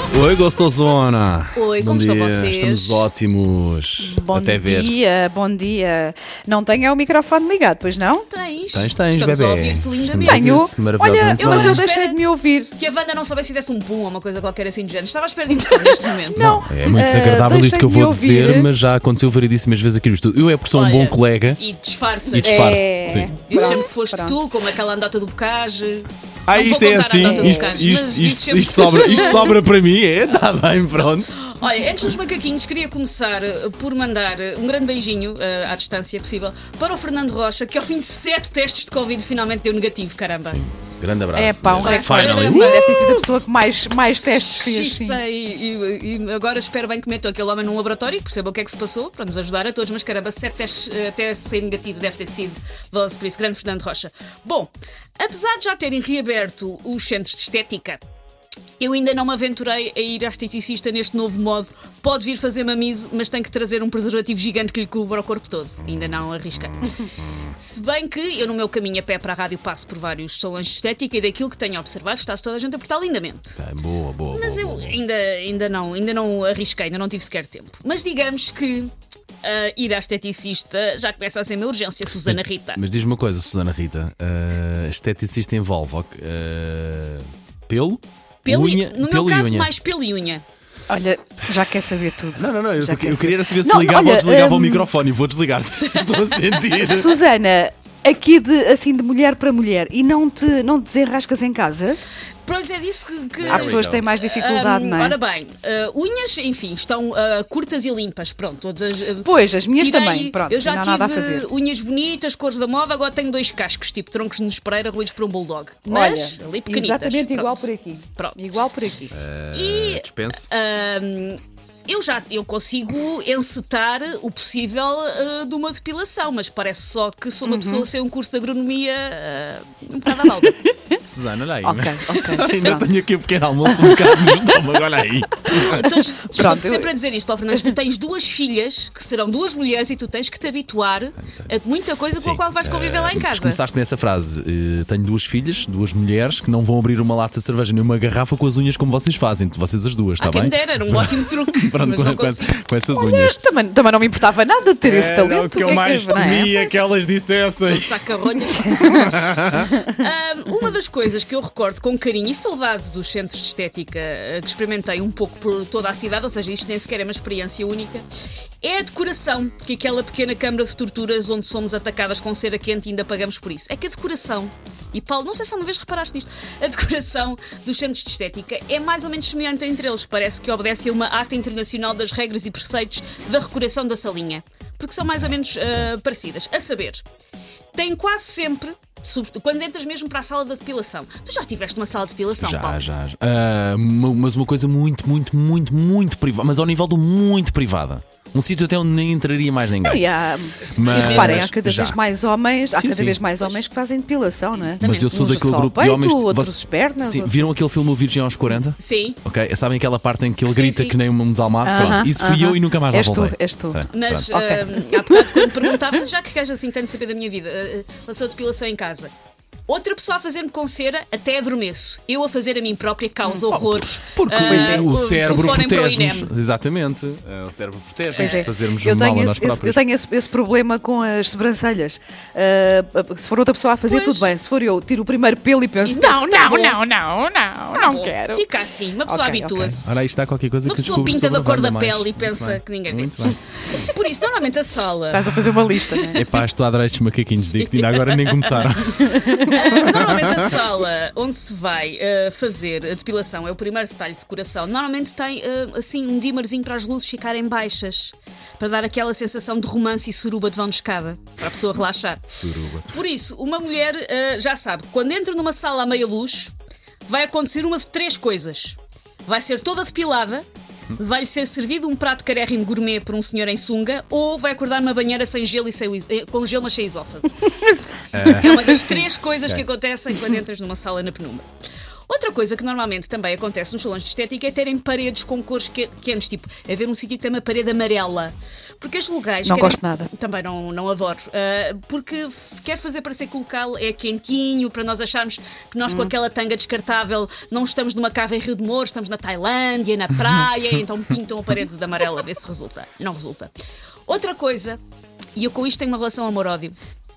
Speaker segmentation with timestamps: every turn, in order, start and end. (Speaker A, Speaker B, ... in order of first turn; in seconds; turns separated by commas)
Speaker A: 0.1-4.9, Speaker B: 1.5-3.1, Speaker C: 4.0-8.2, Speaker B: 8.1-10.7, Speaker A: 8.7-11.8, Speaker C: 10.2-12.7, Speaker B: 11.3-12.2, Speaker B: 12.7-16.5, Speaker C: 15.5-18.7, Speaker A: 16.4-21.6, Speaker B: 20.7-29.6, Speaker A: 22.3-23.4, Speaker C: 22.4-24.4, Speaker A: 26.5-31.3, Speaker C: 27.1-27.8, Speaker B: 31.3-40.6, Speaker A: 40.4-42.8, Speaker C: 41.3-45.2, Speaker B: 41.8-43.2, Speaker B: 44.1-58.0, Speaker B: 58.8-73.6, Speaker A: 73.5-75.0, Speaker B: 74.3-82.8, Speaker A: 82.2-89.7, Speaker B: 88.4-90.4, Speaker C: 90.9-94.9, Speaker A: 92.3-97.2, Speaker C: 96.7-102.0, Speaker B: 102.4-118.4, Speaker A: 103.4-104.0, Speaker C: 103.4-105.2, Speaker C: 109.2-111.5, Speaker C: 115.9-119.1, Speaker A: 119.1-120.5, Speaker B: 119.5-130.7, Speaker C: 127.4-127.9, Speaker A: 131.0-135.8, Speaker C: 131.6-132.9, Speaker C: 133.7-134.5, Speaker B: 135.4-143.6, Speaker C: 135.7-136.9, Speaker A: 141.2-141.5, Speaker A: 142.1-153.4, Speaker B: 150.2-152.6, Speaker C: 152.9-156.7, Speaker A: 154.8-158.1, Speaker B: 155.7-156.6, Speaker B: 157.7-159.1, Speaker A: 158.8-159.8, Speaker B: 159.6-168.1, Speaker B: 168.6-187.0, Speaker A: 185.1-185.3, Speaker B: 187.7-192.8, Speaker A: 192.4-200.1, Speaker C: 199.8-207.4, Speaker A: 200.6-202.0, Speaker B: 200.8-201.5, Speaker A: 202.7-203.3, Speaker A: 204.7-214.3, Speaker B: 208.8-209.2, Speaker B: 210.4-211.0, Speaker C: 211.6-215.5, Speaker B: 213.9-219.1, Speaker B: 219.7-226.3, Speaker A: 223.5-229.8, Speaker C: 224.3-224.9, Speaker B: 228.1-228.5, Speaker C: 228.2-239.8, Speaker B: 233.8-234.3, Speaker B: 235.8-236.8, Speaker B: 237.7-239.9, Speaker A: 239.7-243.8, Speaker B: 240.6-246.2, Speaker C: 245.1-246.2, Speaker A: 246.1-250.5, Speaker B: 247.4-262.3, Speaker C: 249.0-250.1, Speaker A: 262.3-262.9, Speaker B: 262.9-266.5, Speaker B: 267.1-277.3, Speaker A: 278.1-279.6, Speaker B: 278.2-281.4, Speaker B: 282.1-303.5, Speaker C: 289.4-290.1, Speaker C: 295.9-296.1, Speaker B: 304.1-304.8, Speaker B: 305.3-306.8